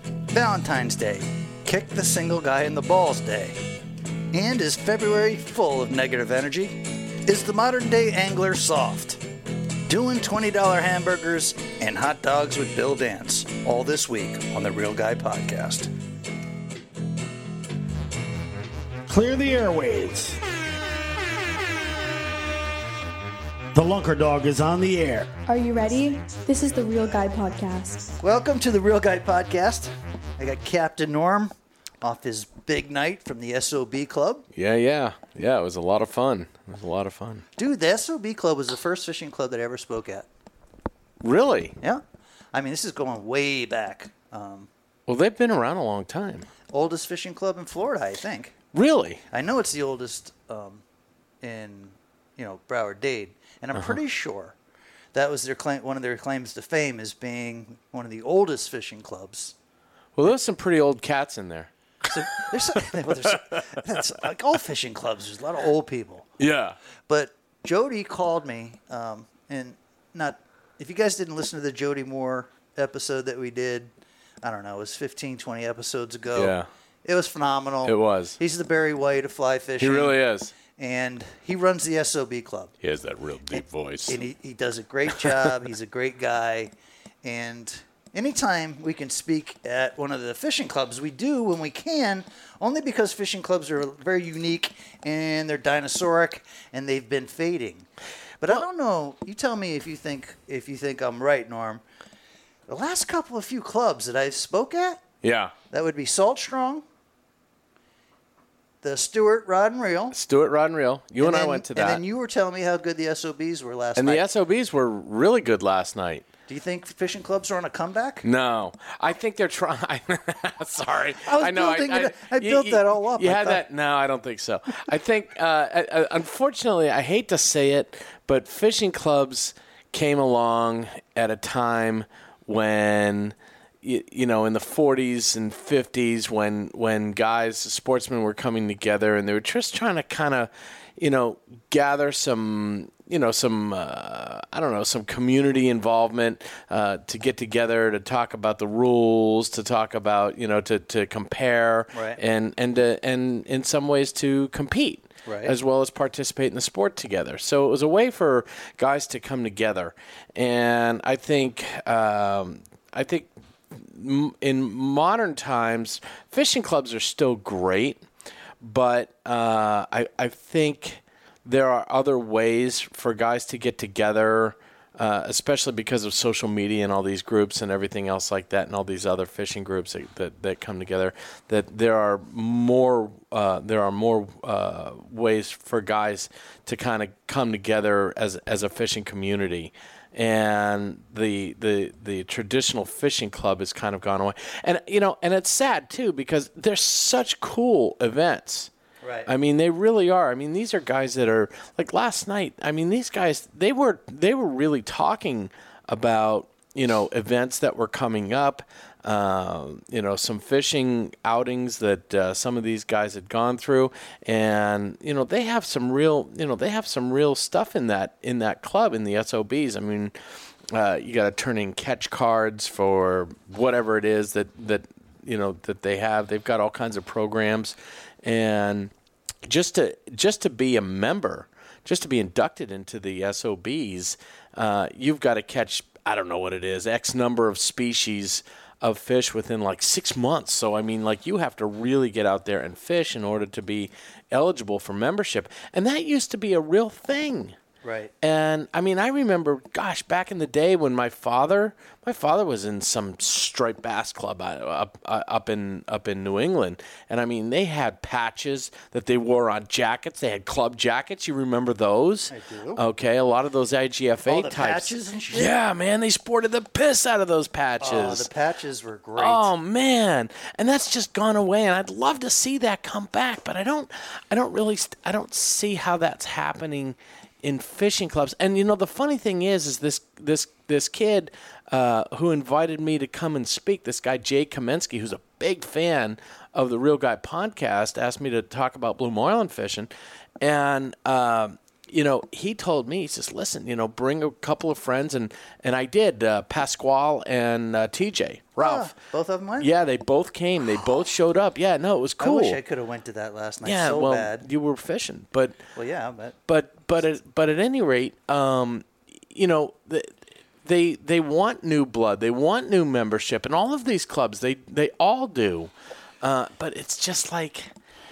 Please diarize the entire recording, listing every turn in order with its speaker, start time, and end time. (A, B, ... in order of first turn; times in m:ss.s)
0:00.3-0:03.6 A
0:04.3-0:09.2 A
0:09.9-0:15.9 A
0:19.1-0:20.4 B
0:23.7-0:25.4 B
0:25.5-0:28.2 C
0:28.2-0:34.4 A
0:34.5-0:37.4 D
0:37.6-0:40.3 A
0:41.2-0:41.8 D
0:42.5-0:44.7 A
0:45.1-0:46.5 D
0:46.7-0:48.5 A
0:48.7-0:49.2 D
0:49.3-0:50.8 A
0:51.4-0:54.6 A
0:55.1-0:59.5 A
1:00.2-1:01.7 D
1:02.1-1:06.3 A
1:02.8-1:03.6 D
1:06.4-1:06.8 D
1:07.1-1:13.9 A
1:14.4-1:22.7 A
1:16.3-1:16.7 D
1:17.8-1:18.4 D
1:19.8-1:20.5 D
1:22.8-1:24.2 D
1:23.6-1:26.7 A
1:25.1-1:25.5 D
1:27.2-1:37.9 A
1:38.4-1:41.8 A
1:42.7-1:45.0 A
1:45.2-1:45.5 D
1:45.7-1:46.8 A
1:48.8-1:50.2 A
1:50.1-1:52.0 D
1:51.2-1:54.2 A
1:54.0-1:56.3 D
1:56.5-1:58.2 A
1:58.2-2:48.0 D
2:01.2-2:03.6 A
2:31.9-2:32.2 A
2:35.2-2:35.5 A
2:48.6-3:18.7 D
3:19.0-3:19.3 A
3:19.3-3:40.1 D
3:40.7-3:48.9 D
3:49.4-4:07.5 D
4:07.8-4:08.1 A
4:08.2-4:28.3 D
4:22.3-4:22.8 A
4:24.2-4:25.5 A
4:27.8-4:29.5 A
4:29.2-4:49.9 D
4:50.4-4:58.9 D
4:58.6-4:59.7 A
4:59.6-5:02.6 D
5:02.2-5:04.4 A
5:03.6-5:05.6 D
5:05.7-5:06.4 A
5:06.5-5:17.7 D